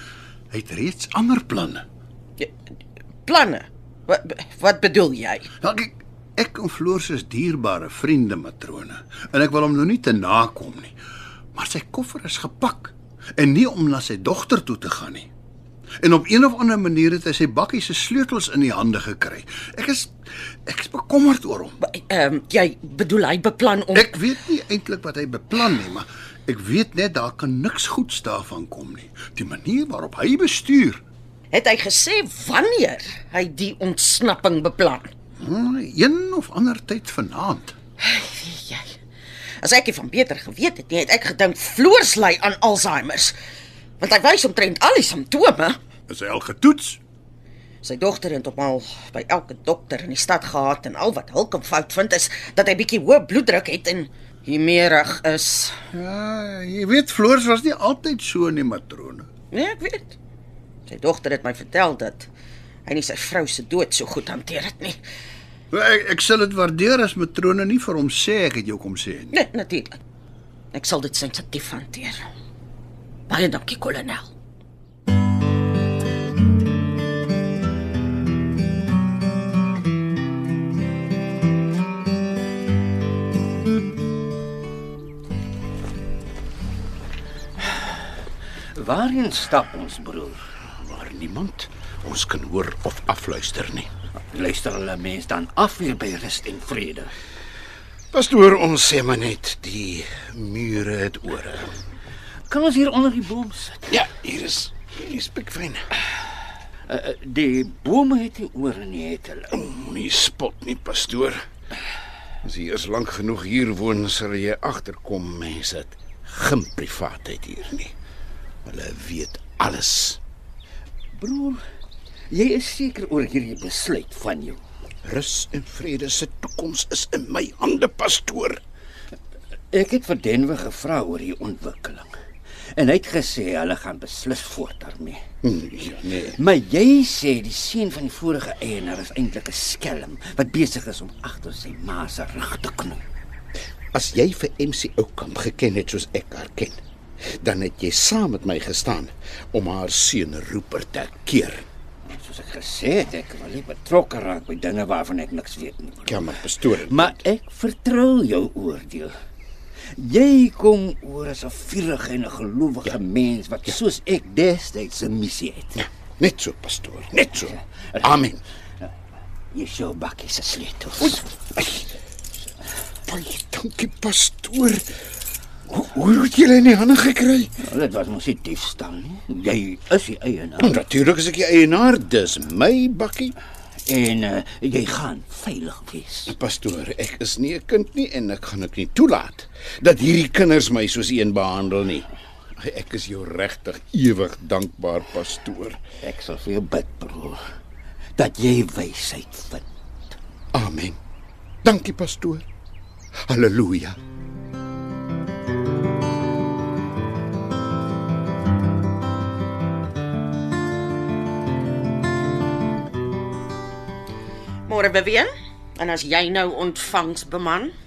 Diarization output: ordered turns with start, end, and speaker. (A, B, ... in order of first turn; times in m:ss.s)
0:00.5-0:01.8 A
0:03.2-0:05.5 B
0:05.6-0:10.9 A
0:11.6-0:15.3 A
0:16.0-0:20.1 A
0:20.7-0:21.8 A
0:21.8-0:24.2 B
0:23.9-0:31.0 A
0:31.5-0:35.1 B
0:35.4-0:37.8 A
0:38.0-0:39.0 B
0:39.6-0:43.4 B
0:44.0-0:45.8 B
0:46.1-0:47.0 A
0:47.8-0:55.8 B
0:55.9-0:59.3 A
0:59.5-1:00.2 B
1:00.9-1:02.3 B
1:02.9-1:05.0 B
1:05.7-1:09.3 A
1:09.3-1:09.9 B
1:10.7-1:12.2 B
1:13.3-1:14.3 B
1:28.8-1:30.4 C
1:30.8-1:33.9 D
1:34.3-1:37.1 C
1:38.1-1:41.7 D
1:42.5-1:44.0 C
1:43.9-1:45.8 D
1:46.9-1:49.7 C
1:49.5-1:51.4 D
1:52.4-1:57.9 D
1:58.6-2:00.2 D
2:01.1-2:01.6 C
2:02.3-2:04.6 C
2:05.0-2:08.6 D
2:09.7-2:12.1 C
2:12.8-2:15.2 C
2:15.4-2:16.4 D
2:16.4-2:23.0 C
2:23.9-2:31.7 D
2:32.1-2:39.1 C
2:36.0-2:37.2 D
2:40.0-2:45.8 C
2:45.8-2:48.4 D
2:47.2-2:48.3 C
2:49.5-2:51.2 C
2:53.1-2:54.9 D
2:55.7-2:57.5 D
2:57.6-3:00.8 C
3:00.6-3:03.3 D
3:03.9-3:06.3 C
3:06.3-3:15.8 D
3:16.0-3:17.4 C
3:18.2-3:19.6 C
3:20.5-3:21.0 D
3:21.6-3:22.4 D
3:23.2-3:24.0 D
3:34.7-3:37.7 B